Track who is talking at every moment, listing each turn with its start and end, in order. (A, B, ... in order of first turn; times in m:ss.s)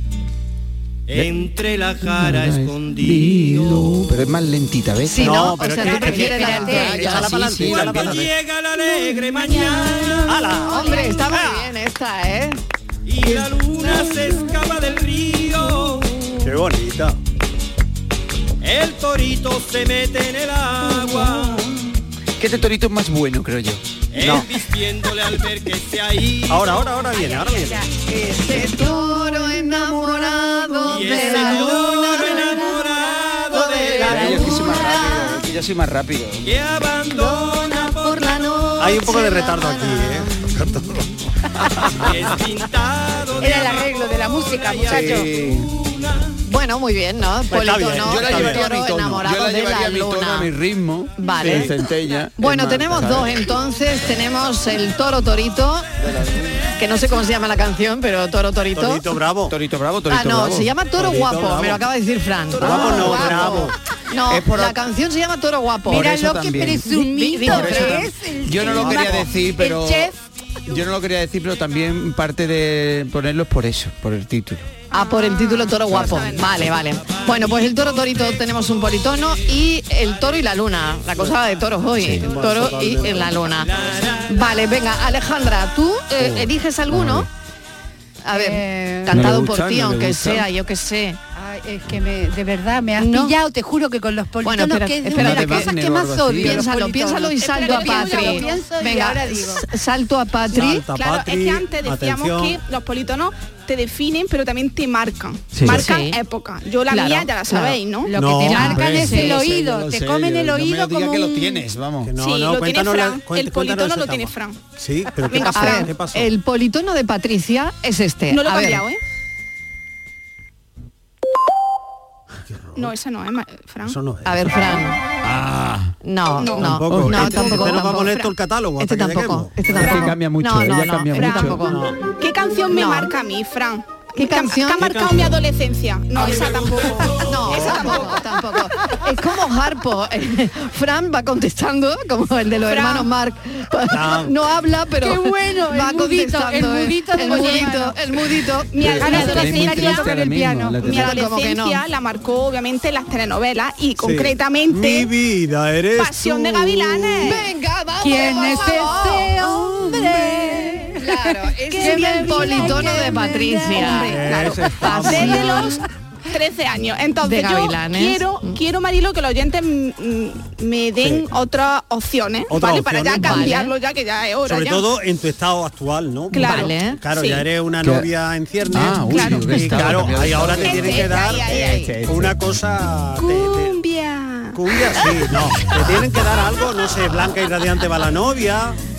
0:01.1-0:04.2 A
0:01.1-0:05.5 B
0:05.1-0:07.4 C
0:05.2-0:08.3 D
0:05.6-0:07.3 E
0:06.3-0:08.3 B
0:07.6-0:10.8 A
0:10.3-0:11.7 D
0:10.7-0:12.6 C
0:10.8-0:11.1 F
0:13.1-0:16.4 A
0:13.3-0:14.4 C
0:16.4-0:17.2 D
0:18.6-0:22.0 A
0:22.4-0:23.8 B
0:24.1-0:27.2 A
0:24.2-0:24.5 D
0:26.5-0:27.8 D
0:27.2-0:27.8 E
0:28.1-0:32.9 C
0:28.5-0:31.6 B
0:30.8-0:34.6 A
0:32.5-0:32.9 E
0:33.5-0:35.4 C
0:34.0-0:36.5 B
0:36.4-0:38.7 A
0:37.2-0:40.4 C
0:38.8-0:41.1 D
0:41.6-0:41.9 E
0:41.9-0:46.4 A
0:43.4-0:45.3 E
0:44.8-0:45.7 B
0:46.5-0:50.5 C
0:47.5-0:48.7 D
0:48.0-0:53.4 B
0:51.2-0:51.7 C
0:51.4-0:51.7 D
0:52.4-0:55.9 C
0:56.0-0:56.5 B
0:56.8-0:59.0 C
0:58.8-0:59.6 D
0:59.5-1:00.7 B
1:00.1-1:06.3 C
1:01.0-1:01.9 D
1:02.6-1:03.7 D
1:02.6-1:03.7 B
1:03.1-1:03.6 E
1:04.3-1:04.8 B
1:05.9-1:10.2 E
1:05.9-1:06.9 B
1:07.0-1:08.1 C
1:07.4-1:10.1 B
1:08.6-1:09.3 D
1:10.7-1:14.7 B
1:14.9-1:27.3 C
1:14.9-1:16.6 F
1:16.3-1:19.5 A
1:22.0-1:22.3 B
1:22.2-1:23.3 D
1:22.9-1:24.7 A
1:26.2-1:27.3 B
1:28.2-1:31.2 C
1:28.3-1:29.3 E
1:29.1-1:30.5 B
1:31.4-1:39.7 E
1:33.0-1:33.4 C
1:34.4-1:35.7 C
1:35.2-1:36.7 B
1:36.4-1:40.9 C
1:37.5-1:38.6 F
1:40.5-1:42.6 D
1:40.5-1:48.1 F
1:45.5-1:45.8 B
1:45.7-1:46.2 C
1:46.9-1:47.8 C
1:48.0-1:51.7 E
1:48.2-1:48.9 D
1:48.4-1:49.4 C
1:48.5-1:52.1 B
1:52.0-1:56.3 D
1:52.2-1:54.6 F
1:55.3-1:55.9 F
1:55.5-1:58.8 C
1:58.3-1:59.0 F
2:02.5-2:02.9 D
2:02.8-2:04.0 F
2:03.8-2:04.8 D
2:04.2-2:05.0 C
2:05.2-2:05.9 B
2:06.0-2:11.9 C
2:06.4-2:08.3 F
2:06.6-2:10.0 D
2:06.6-2:07.7 B
2:09.8-2:11.6 B
2:09.8-2:10.2 F
2:11.1-2:11.7 F
2:11.6-2:12.0 D
2:12.2-2:18.2 F
2:12.7-2:13.1 C
2:14.2-2:15.0 C
2:14.8-2:15.3 D
2:16.2-2:16.9 D
2:16.2-2:17.8 A
2:17.2-2:29.6 C
2:22.6-2:23.1 F
2:23.9-2:24.3 D
2:25.0-2:30.8 E
2:27.2-2:27.7 F
2:28.7-2:30.2 F
2:28.8-2:31.2 B
2:30.8-2:35.1 F
2:30.8-2:31.8 C
2:34.0-2:37.3 D
2:36.0-2:37.4 F
2:37.2-2:45.8 C
2:38.0-2:44.3 E
2:41.8-2:42.8 F
2:43.8-2:54.9 F
2:44.1-2:45.6 D
2:45.0-2:45.8 E
2:47.2-2:48.6 C
2:51.0-2:51.3 D
2:52.5-2:53.6 D
2:53.2-2:53.7 C
2:54.5-3:03.8 D
2:56.3-2:57.4 F
2:56.3-2:57.0 C
2:57.8-2:58.1 B
2:58.7-3:02.5 B
2:58.9-3:02.0 F
3:03.2-3:05.2 F
3:04.5-3:08.8 D